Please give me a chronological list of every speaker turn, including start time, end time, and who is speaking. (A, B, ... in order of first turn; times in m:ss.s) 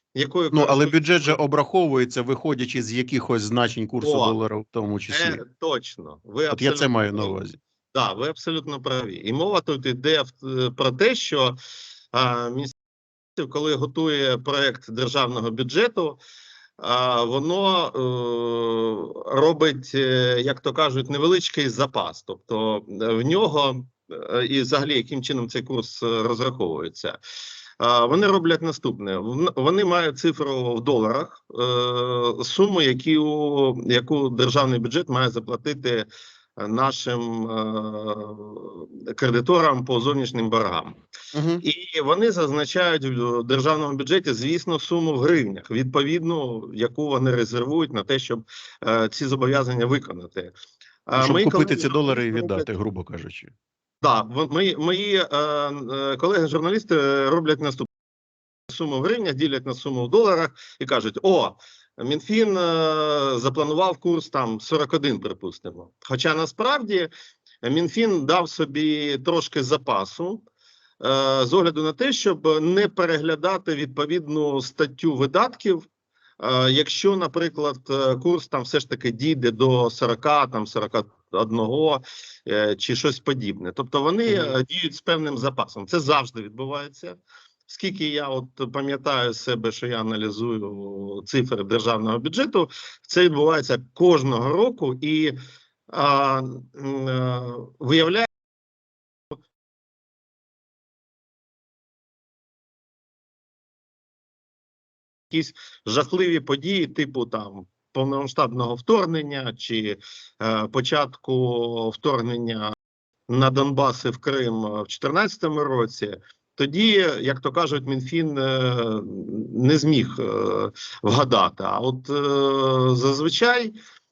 0:00.1-0:01.4 A
0:00.5-0:05.4 B
0:04.0-0:04.4 A
0:05.1-0:07.4 A
0:06.5-0:07.6 B
0:07.9-0:11.6 A
0:12.1-0:12.7 A
0:13.4-0:16.2 A
0:16.8-0:27.2 A
0:27.8-0:41.0 A
0:41.3-0:41.6 B
0:41.6-0:50.5 A
0:51.1-0:52.7 A
0:51.2-0:53.5 B
0:54.0-0:57.9 A
0:58.7-1:07.1 A
1:07.6-1:10.4 A
1:11.0-1:15.8 A
1:16.4-1:35.4 A
1:24.3-1:24.5 B
1:35.9-1:38.3 A
1:45.3-1:52.7 A
1:53.3-2:03.8 A